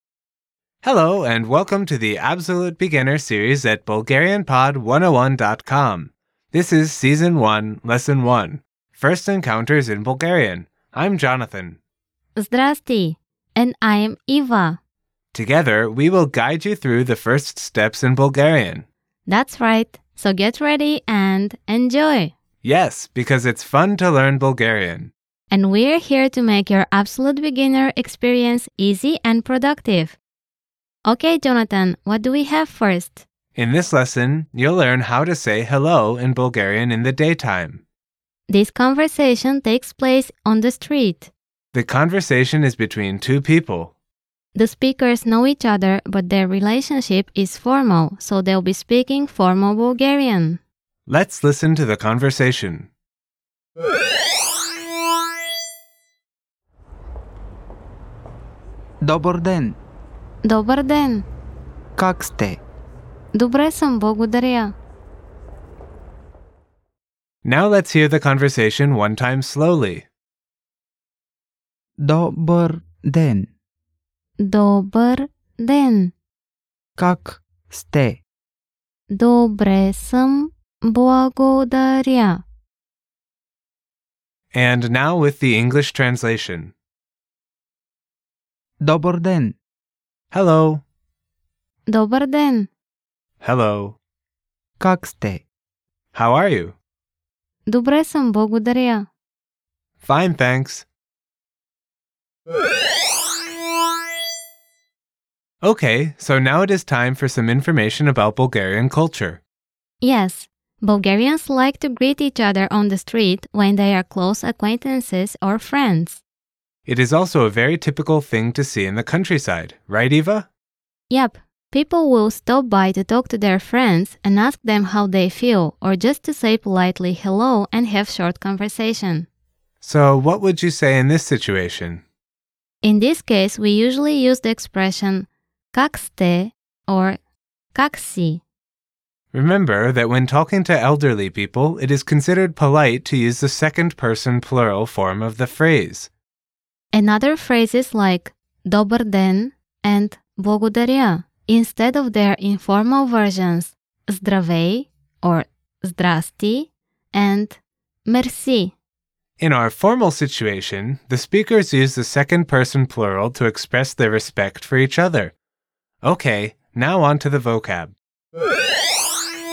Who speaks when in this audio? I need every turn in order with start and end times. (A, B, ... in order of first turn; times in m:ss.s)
0:00.8-0:11.8 A
0:12.4-0:14.8 B
0:15.3-0:18.9 A
0:19.3-0:22.3 B
0:22.6-0:25.1 A
0:25.5-0:30.2 B
0:31.0-0:33.2 B
0:33.6-0:37.8 A
0:38.5-0:41.3 B
0:41.7-0:43.9 A
0:44.6-0:50.6 B
0:51.1-0:52.9 A
0:59.0-0:59.8 C
1:00.4-1:01.3 B
1:02.0-1:02.6 C
1:03.3-1:04.7 B
1:07.4-1:10.1 A
1:12.0-1:13.5 C
1:14.4-1:16.1 B
1:17.0-1:18.2 C
1:19.1-1:22.4 B
1:24.5-1:26.7 A
1:28.8-1:29.6 C
1:30.3-1:30.8 A
1:31.9-1:32.7 B
1:33.4-1:34.0 A
1:34.8-1:35.4 C
1:36.1-1:36.8 A
1:37.7-1:39.1 B
1:40.0-1:40.9 A
1:45.6-1:49.4 A
1:50.0-1:56.2 B
1:56.9-2:00.5 A
2:01.1-2:09.3 B
2:09.8-2:12.0 A
2:12.8-2:17.2 B
2:17.7-2:18.4 B
2:19.3-2:26.1 A
2:26.9-2:38.8 B
2:39.4-2:45.3 A
2:46.0-2:48.0 A